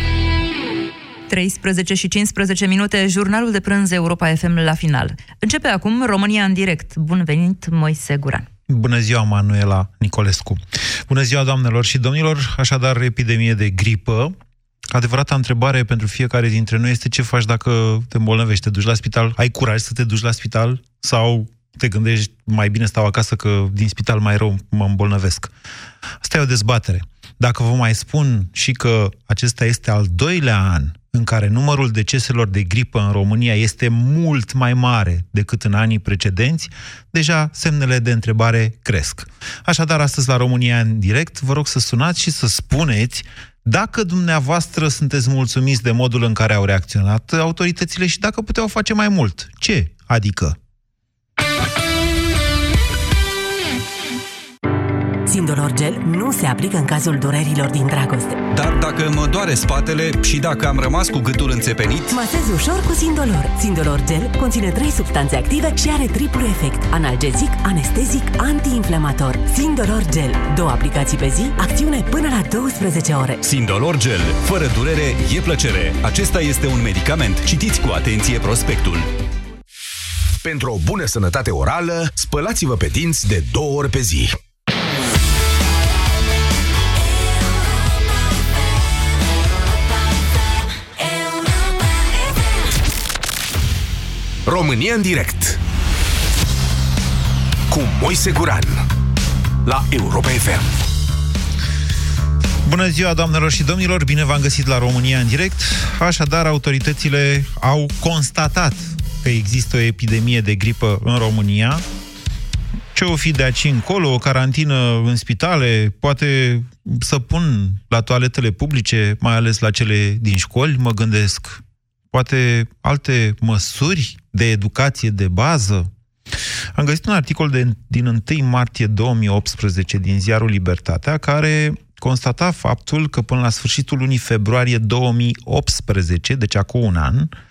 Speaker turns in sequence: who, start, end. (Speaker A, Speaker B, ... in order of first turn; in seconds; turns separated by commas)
Speaker A: 1.3-8.5, Speaker B: 8.7-14.3, Speaker B: 14.9-25.5, Speaker B: 26.2-50.6, Speaker C: 55.2-58.4, Speaker D: 58.5-62.2, Speaker C: 62.1-73.4, Speaker D: 73.4-79.1, Speaker E: 80.4-84.3, Speaker E: 94.5-95.6, Speaker E: 97.7-98.8, Speaker E: 99.6-100.7, Speaker B: 102.6-111.8, Speaker B: 112.9-125.9, Speaker B: 126.7-137.3